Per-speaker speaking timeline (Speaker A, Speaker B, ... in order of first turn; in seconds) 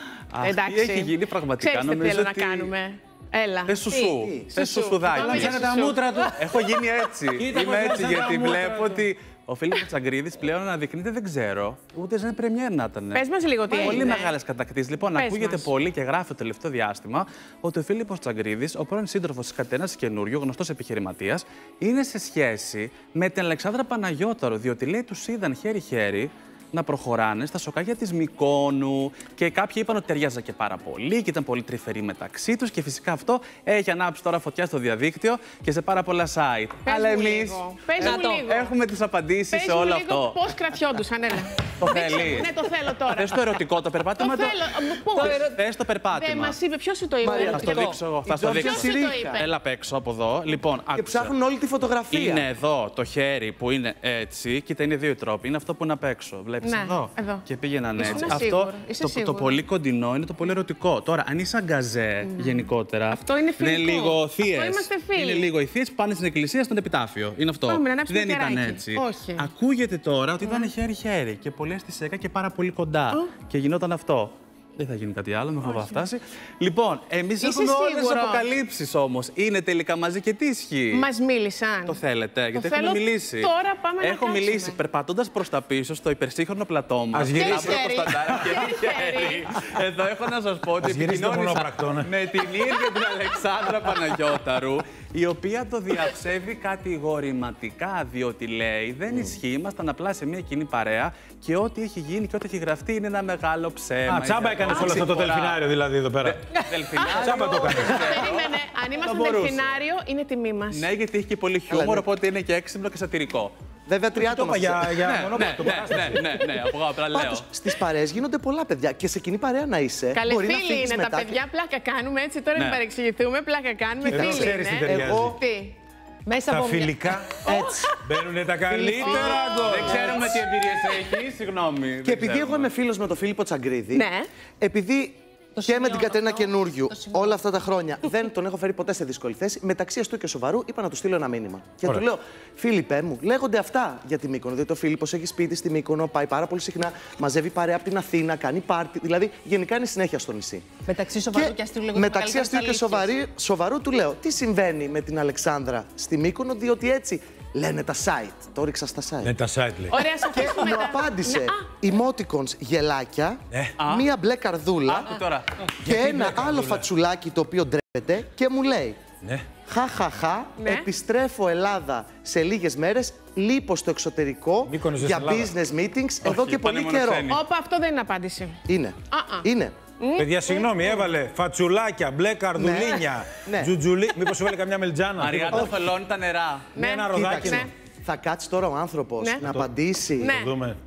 Speaker A: 0.3-2.7, 3.7-40.4, 41.8-42.5, 43.1-46.6, 47.5-51.3, 52.1-81.1, 81.9-105.6, 106.2-109.8, 110.7-113.5, 115.0-117.5, 122.5-122.8, 129.6-132.7, 163.8-164.1, 164.9-165.5, 176.2-177.4, 185.2-186.7
Speaker B: 0.4-3.9, 4.5-6.2, 13.1-14.3, 15.1-15.7, 36.9-38.7, 39.5-43.4, 44.2-45.4, 46.1-47.8, 48.5-49.5, 56.6-57.4, 58.0-59.6, 62.3-65.5, 67.7-69.5, 75.6-76.1, 77.4-78.5, 80.9-82.0, 82.5-84.8, 87.3-89.5, 104.7-105.0, 106.9-110.9, 120.1-125.8, 127.5-127.8, 129.0-129.6, 134.0-134.2, 159.9-161.7, 170.6-170.9, 177.3-178.6, 179.1-179.5, 180.0-181.1, 186.8-187.7, 189.2-189.4, 190.2-190.5
Speaker C: 3.9-4.2, 13.7-14.2, 38.0-38.4, 45.1-45.6, 47.4-48.0, 126.3-127.1, 129.1-130.4, 135.6-137.3, 150.8-153.1
Speaker D: 5.2-6.6, 7.3-9.1, 87.1-88.0, 90.8-92.1, 104.1-106.4, 107.1-108.0, 114.2-116.4, 124.1-125.4, 126.5-127.5, 128.0-130.1, 159.2-160.0, 165.8-166.8, 169.2-169.5, 174.7-175.5, 180.2-185.7, 186.8-187.7, 189.4-189.7, 190.2-190.8
Speaker E: 47.2-49.4, 50.9-52.5, 111.7-112.1, 113.9-115.0, 117.1-121.4, 124.8-125.4, 127.5-127.9, 132.0-134.1, 134.6-150.7, 151.3-159.3, 160.2-165.2, 165.8-169.0, 169.6-177.3, 178.7-179.7, 182.6-183.7, 187.1-190.4